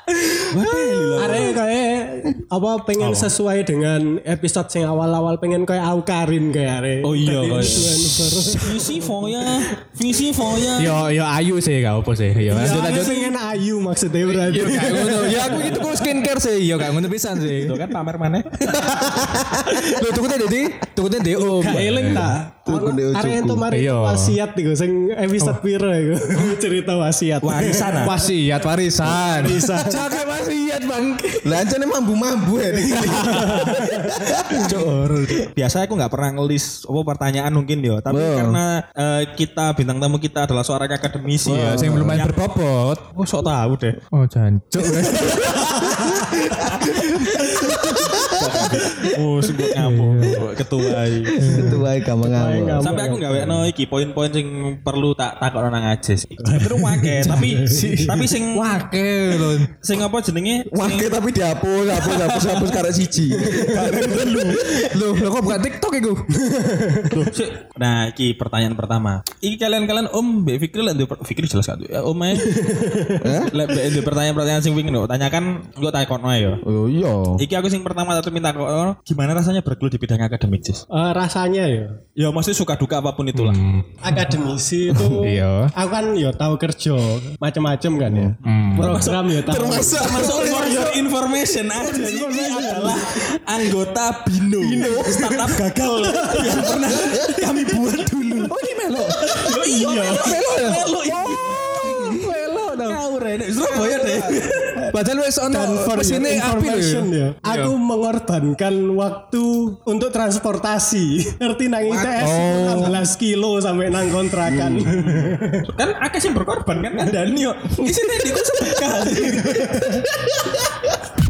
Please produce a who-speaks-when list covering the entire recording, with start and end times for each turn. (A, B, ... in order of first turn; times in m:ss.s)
0:00.4-0:01.6 A
0:01.2-0:08.9 B
0:03.0-0:03.3 C
0:07.0-0:11.1 A
0:07.5-0:08.6 C
0:10.8-0:13.4 C
0:12.5-0:16.1 B
0:14.3-0:17.8 C
0:15.5-0:15.9 A
0:17.5-0:18.5 A
0:18.6-0:20.0 B
0:18.7-0:22.3 C
0:21.3-0:28.1 B
0:22.6-0:23.7 D
0:23.7-0:24.4 C
0:27.4-0:28.1 A
0:28.0-0:31.6 C
0:29.0-0:30.1 B
0:31.4-0:35.3 D
0:32.9-0:34.0 C
0:33.1-0:35.4 B
0:35.3-0:42.5 A
0:38.1-0:38.6 D
0:41.4-0:42.3 D
0:41.5-0:43.0 C
0:43.1-0:44.0 A
0:44.1-0:46.2 C
0:45.3-0:49.7 D
0:46.6-0:51.5 A
0:49.8-0:50.4 C
0:50.2-0:52.9 D
0:51.4-0:51.8 C
0:52.2-0:53.6 B
0:52.8-0:58.8 A
0:56.5-0:59.7 C
0:57.3-0:58.0 B
0:59.7-1:01.1 A
1:00.7-1:04.6 D
1:03.6-1:04.7 A
1:04.6-1:06.3 C
1:06.3-1:07.2 B
1:07.1-1:12.6 A
1:12.4-1:13.2 B
1:13.2-1:13.6 D
1:13.4-1:16.6 A
1:16.6-1:17.4 D
1:17.4-1:20.8 A
1:20.9-1:22.0 B
1:22.2-1:23.6 A
1:23.3-1:24.3 C
1:24.0-1:30.9 B
1:25.2-1:25.7 C
1:28.1-1:28.3 D
1:28.4-1:28.9 C
1:28.4-1:38.5 A
1:29.4-1:31.0 D
1:31.7-1:33.2 B
1:34.8-1:35.3 B
1:34.8-1:35.2 D
1:36.1-1:37.0 B
1:38.4-1:43.0 C
1:39.2-1:42.2 A
1:39.4-1:39.9 B
1:41.8-1:42.1 D
1:42.8-1:44.9 A
1:43.6-1:44.7 D
1:44.9-1:47.7 C
1:45.5-1:55.7 B
1:51.9-1:52.9 A
1:52.2-1:53.0 C
1:54.5-1:54.9 D
1:54.8-2:00.3 A
1:59.0-2:00.0 B